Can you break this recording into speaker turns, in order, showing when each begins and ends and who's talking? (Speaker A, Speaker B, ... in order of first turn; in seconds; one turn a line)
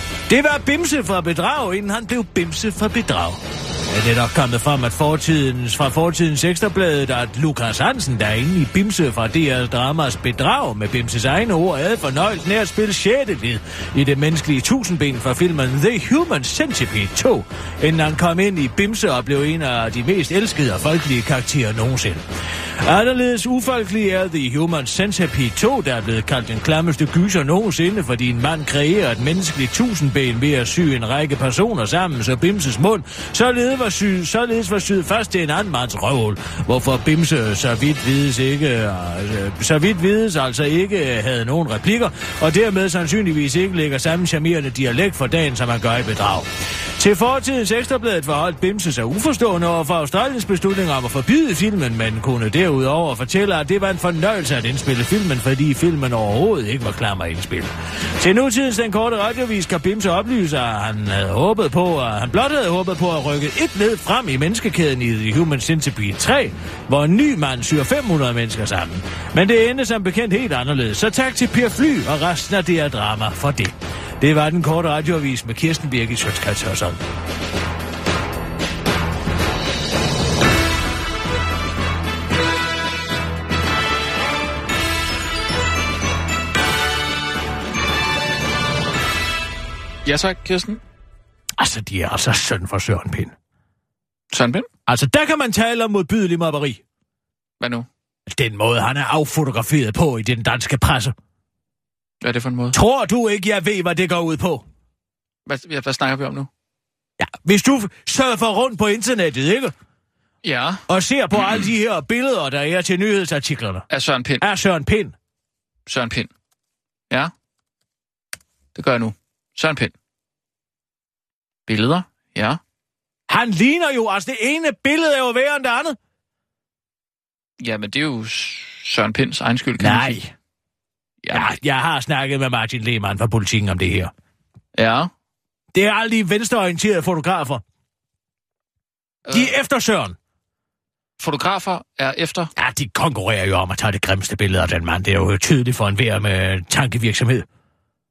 Speaker A: 0.3-22.2
Speaker A: 22.8-77.0
Speaker B: 90.0-90.8
Speaker A: 91.6-93.3
Speaker B: 94.3-94.7
Speaker A: 94.9-96.8
Speaker B: 97.6-97.9
Speaker A: 98.3-101.2
Speaker B: 102.2-102.8
Speaker A: 102.7-104.7
Speaker B: 105.5-106.5
Speaker A: 107.2-109.7
Speaker B: 110.4-110.8
Speaker A: 110.9-113.9
Speaker B: 111.4-111.7
Speaker B: 113.9-114.5
Speaker A: 114.4-115.2
Speaker B: 115.9-116.3
Speaker B: 118.8-119.9
Speaker B: 121.7-122.6
Speaker A: 123.3-126.0
Speaker B: 127.6-130.2
Speaker A: 129.8-130.3
Speaker B: 131.2-131.6
Speaker A: 131.3-134.1
Speaker B: 134.8-135.1
Speaker A: 135.7-137.6
Speaker B: 139.3-139.5
Speaker A: 139.3-140.2
Speaker B: 141.2-142.5
Speaker A: 142.6-147.5